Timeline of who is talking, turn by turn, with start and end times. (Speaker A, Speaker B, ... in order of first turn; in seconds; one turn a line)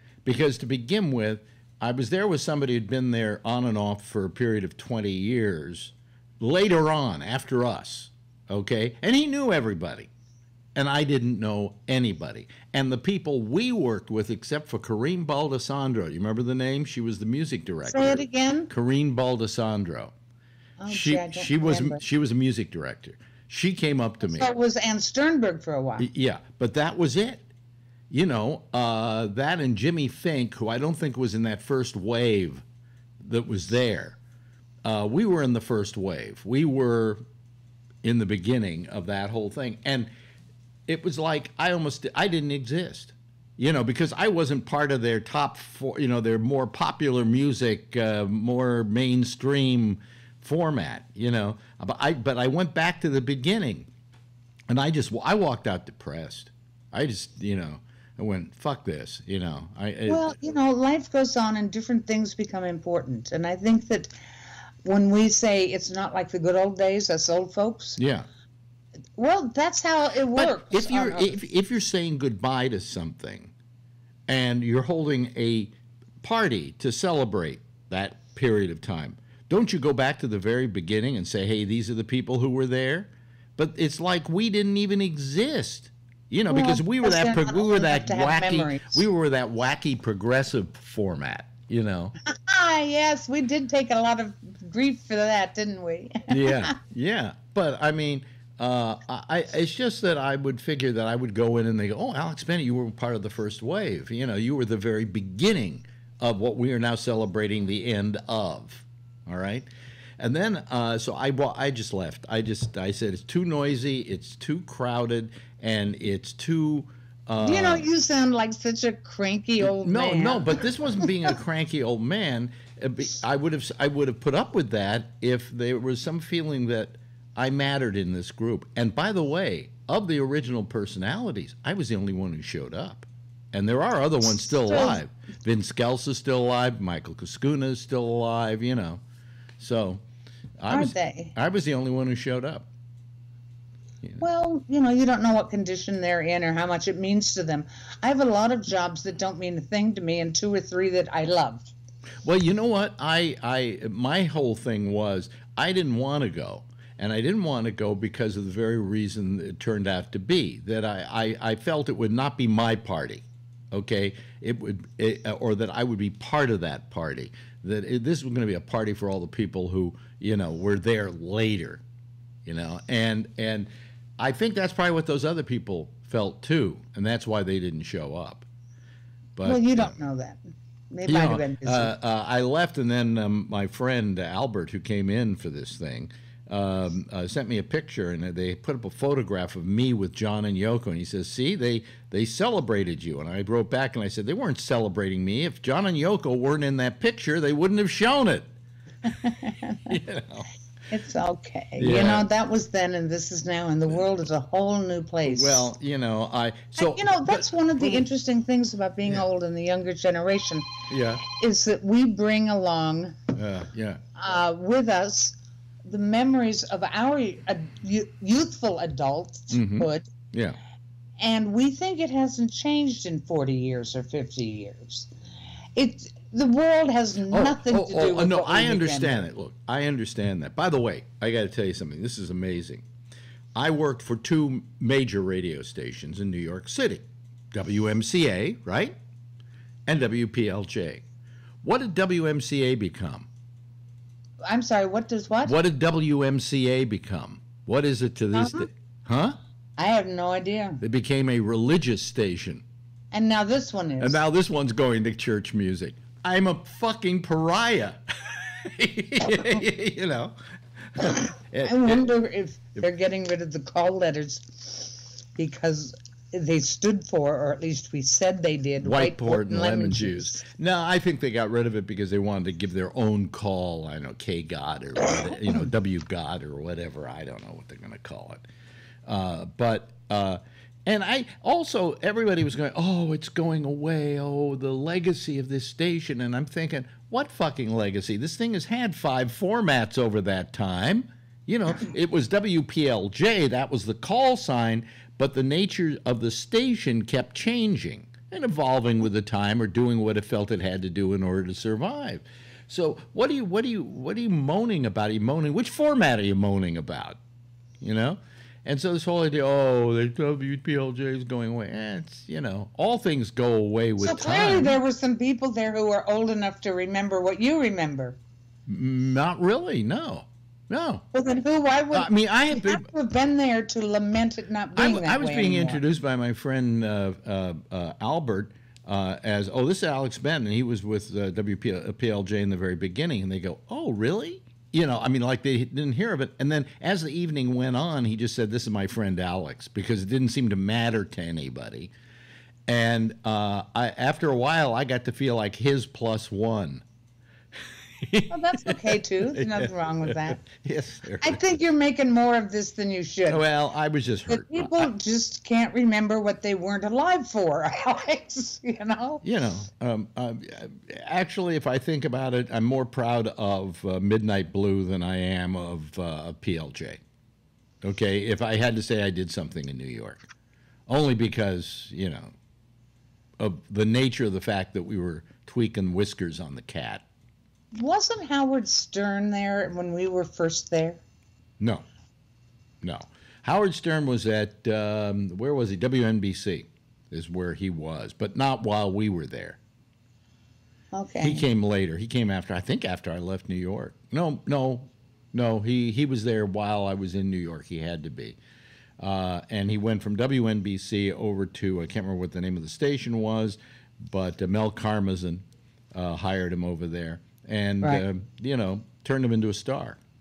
Speaker A: 0.2-10.1
Speaker A: 10.8-20.1
Speaker B: 17.9-18.7
Speaker B: 20.8-22.0
Speaker A: 20.9-24.5
Speaker B: 24.2-26.1
Speaker A: 26.0-27.4
Speaker A: 28.1-32.6
Speaker A: 33.2-34.2
Speaker A: 34.8-37.2
Speaker A: 38.0-40.1
Speaker A: 40.9-53.9
Speaker A: 54.7-60.4
Speaker B: 60.1-64.1
Speaker B: 64.8-68.0
Speaker A: 68.0-68.3
Speaker B: 69.2-71.4
Speaker A: 70.3-73.5
Speaker A: 74.3-92.2
Speaker B: 86.5-89.0
Speaker B: 92.3-96.7
Speaker A: 96.3-117.9
Speaker B: 117.4-120.6
Speaker A: 119.6-139.0
Speaker B: 134.4-135.0
Speaker A: 139.6-140.0
Speaker A: 140.6-142.7
Speaker B: 140.7-141.3
Speaker B: 144.2-151.7
Speaker A: 152.2-171.8
Speaker A: 172.4-178.5
Speaker A: 179.4-179.9
Speaker B: 179.4-181.9
Speaker A: 181.1-198.5
Speaker B: 199.1-199.8
Speaker A: 199.9-200.5
Speaker B: 200.9-205.7
Speaker A: 201.8-202.3
Speaker A: 205.2-208.1
Speaker B: 206.8-210.7
Speaker A: 210.9-211.2
Speaker B: 211.3-213.2
Speaker A: 213.3-214.0
Speaker B: 214.2-220.1
Speaker A: 219.5-220.6
Speaker B: 221.2-225.1
Speaker B: 225.8-229.2
Speaker A: 227.3-232.8
Speaker A: 233.6-239.0
Speaker A: 239.9-241.0
Speaker A: 241.6-243.3
Speaker B: 244.5-245.6
Speaker A: 245.4-249.4
Speaker B: 248.3-248.7
Speaker B: 249.8-250.8
Speaker A: 250.8-252.6
Speaker B: 253.1-254.2
Speaker A: 254.0-260.4
Speaker A: 261.0-262.1
Speaker B: 261.0-270.4
Speaker A: 268.8-278.5
Speaker A: 279.1-307.2
Speaker A: 307.8-314.8
Speaker B: 314.0-318.2
Speaker A: 318.7-321.0
Speaker B: 321.1-325.8
Speaker A: 321.9-322.9
Speaker A: 324.8-341.9
Speaker A: 342.7-346.8
Speaker A: 348.0-351.4
Speaker B: 348.3-350.4
Speaker B: 351.2-353.4
Speaker A: 353.3-354.9
Speaker B: 354.3-359.2
Speaker A: 359.2-367.0
Speaker A: 367.8-370.2
Speaker A: 370.9-372.3
Speaker A: 373.4-377.1
Speaker B: 377.7-381.0
Speaker A: 381.6-381.9
Speaker A: 382.8-389.6
Speaker B: 390.9-391.4
Speaker A: 391.2-398.4
Speaker A: 399.0-410.0